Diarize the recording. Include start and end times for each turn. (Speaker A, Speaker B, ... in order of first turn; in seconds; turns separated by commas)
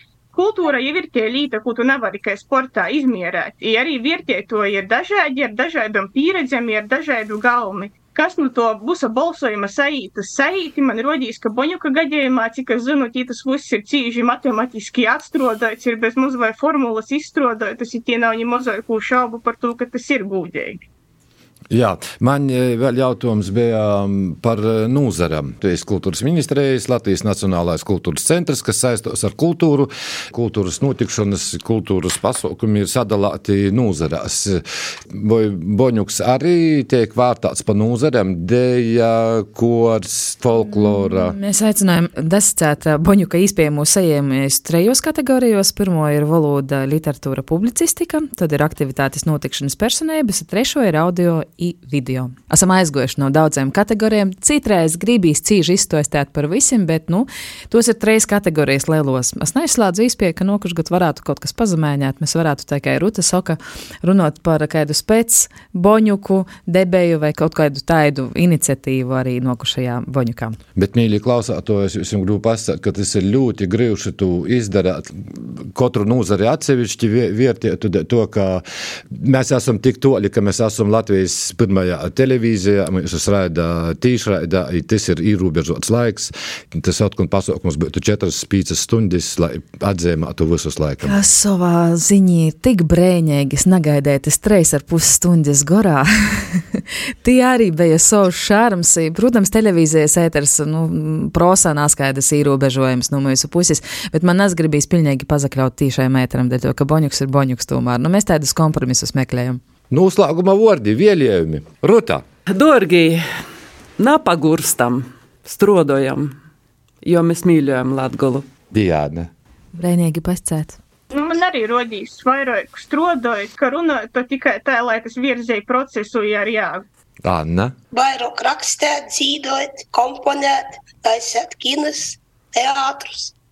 Speaker A: 0.3-20.8, Speaker B: 21.7-41.4, Speaker C: 40.5-70.6, Speaker B: 70.8-91.2, Speaker C: 91.0-109.6, Speaker B: 109.9-112.2, Speaker D: 112.5-113.2, Speaker D: 114.0-116.3, Speaker D: 117.0-118.5, Speaker B: 118.7-119.3, Speaker C: 119.8-120.8, Speaker A: 121.1-126.8, Speaker B: 127.2-127.7, Speaker E: 127.9-133.3